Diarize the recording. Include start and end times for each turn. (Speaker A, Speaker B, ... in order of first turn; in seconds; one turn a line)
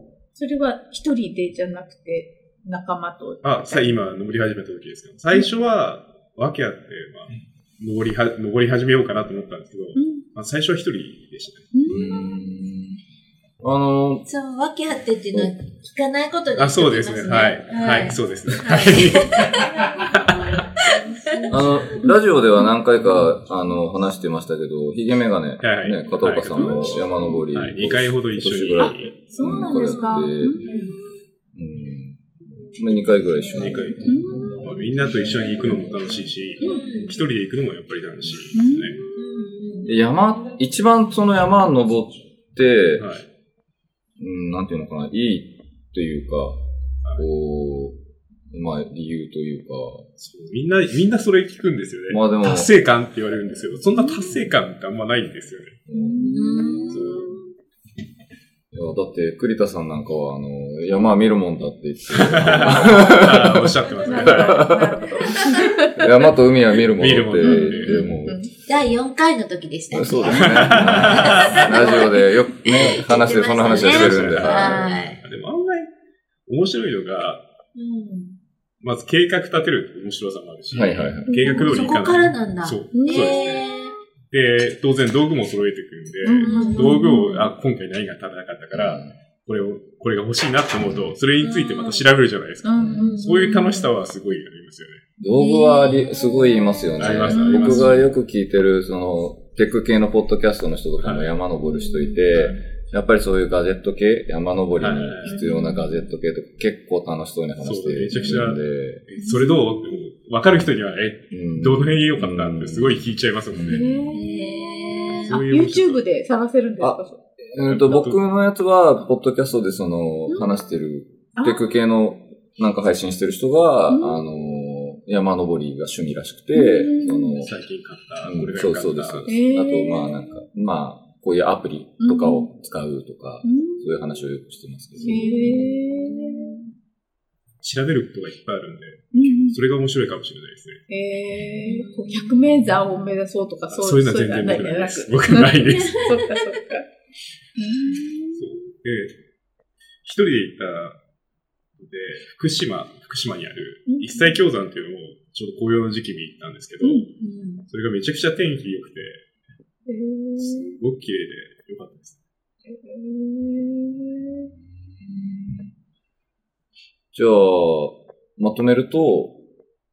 Speaker A: 0.3-4.0
Speaker B: 3.4-11.7
Speaker A: 9.9-10.2
Speaker A: 11.7-12.3
Speaker C: 11.9-13.0
Speaker C: 13.6-14.2
Speaker D: 14.2-21.5
Speaker B: 16.6-20.4
Speaker A: 21.2-22.2
Speaker C: 21.5-30.6
Speaker B: 25.6-29.2
Speaker A: 28.9-31.0
Speaker D: 30.5-30.9
Speaker C: 31.5-32.2
Speaker C: 32.7-34.5
Speaker B: 33.5-39.0
Speaker A: 34.0-34.7
Speaker A: 36.6-36.9
Speaker D: 36.6-37.2
Speaker A: 38.5-39.3
Speaker D: 39.1-39.9
Speaker C: 39.9-43.1
Speaker B: 43.0-43.2
Speaker C: 44.2-46.6
Speaker C: 47.1-48.0
Speaker C: 48.5-50.1
Speaker B: 50.2-55.8
Speaker C: 52.1-52.7
Speaker C: 55.9-56.6
Speaker A: 55.9-57.4
Speaker D: 56.2-57.3
Speaker B: 56.9-57.4
Speaker C: 58.7-68.4
Speaker B: 62.2-64.9
Speaker A: 63.9-66.1
Speaker B: 66.9-68.0
Speaker A: 67.4-68.5
Speaker D: 67.8-75.2
Speaker C: 69.9-74.8
Speaker B: 70.4-71.7
Speaker B: 73.6-75.9
Speaker B: 76.5-77.4
Speaker D: 77.7-78.4
Speaker B: 78.8-83.6
Speaker C: 80.7-81.7
Speaker A: 81.3-81.9
Speaker D: 81.6-83.9
Speaker A: 82.9-83.7
Speaker B: 84.3-95.0
Speaker A: 86.2-87.4
Speaker D: 86.4-87.5
Speaker C: 88.7-89.1
Speaker D: 91.4-92.1
Speaker A: 92.6-93.7
Speaker C: 92.8-93.1
Speaker D: 92.9-93.9
Speaker C: 95.2-109.0
Speaker D: 95.4-97.2
Speaker A: 95.4-95.9
Speaker B: 97.0-98.1
Speaker A: 97.2-98.0
Speaker B: 101.0-101.3
Speaker D: 101.7-102.2
Speaker B: 102.3-102.6
Speaker B: 104.8-105.3
Speaker A: 105.2-106.0
Speaker D: 105.3-105.7
Speaker B: 107.6-114.0
Speaker A: 109.2-110.0
Speaker C: 111.3-114.0
Speaker A: 113.6-117.2
Speaker D: 114.1-115.4
Speaker B: 115.2-116.0
Speaker C: 116.8-127.5
Speaker B: 117.6-118.2
Speaker A: 120.3-120.8
Speaker A: 121.3-121.8
Speaker A: 123.9-124.3
Speaker A: 126.5-127.5
Speaker B: 127.4-129.3
Speaker C: 128.2-135.7
Speaker A: 129.3-130.2
Speaker A: 132.0-132.5
Speaker A: 133.4-134.0
Speaker A: 135.0-136.6
Speaker D: 135.0-136.7
Speaker B: 137.6-140.8
Speaker A: 139.1-139.6
Speaker A: 140.9-146.8
Speaker D: 141.6-143.0
Speaker B: 143.7-146.1
Speaker D: 145.8-146.6
Speaker A: 147.6-148.4
Speaker B: 148.3-149.2
Speaker B: 150.0-151.0
Speaker B: 151.8-157.1
Speaker A: 153.9-154.4
Speaker A: 156.8-157.6
Speaker D: 157.2-157.6
Speaker B: 157.7-159.2
Speaker A: 159.8-160.8
Speaker B: 160.4-162.2
Speaker A: 162.7-164.5
Speaker C: 165.1-165.7
Speaker C: 167.1-169.4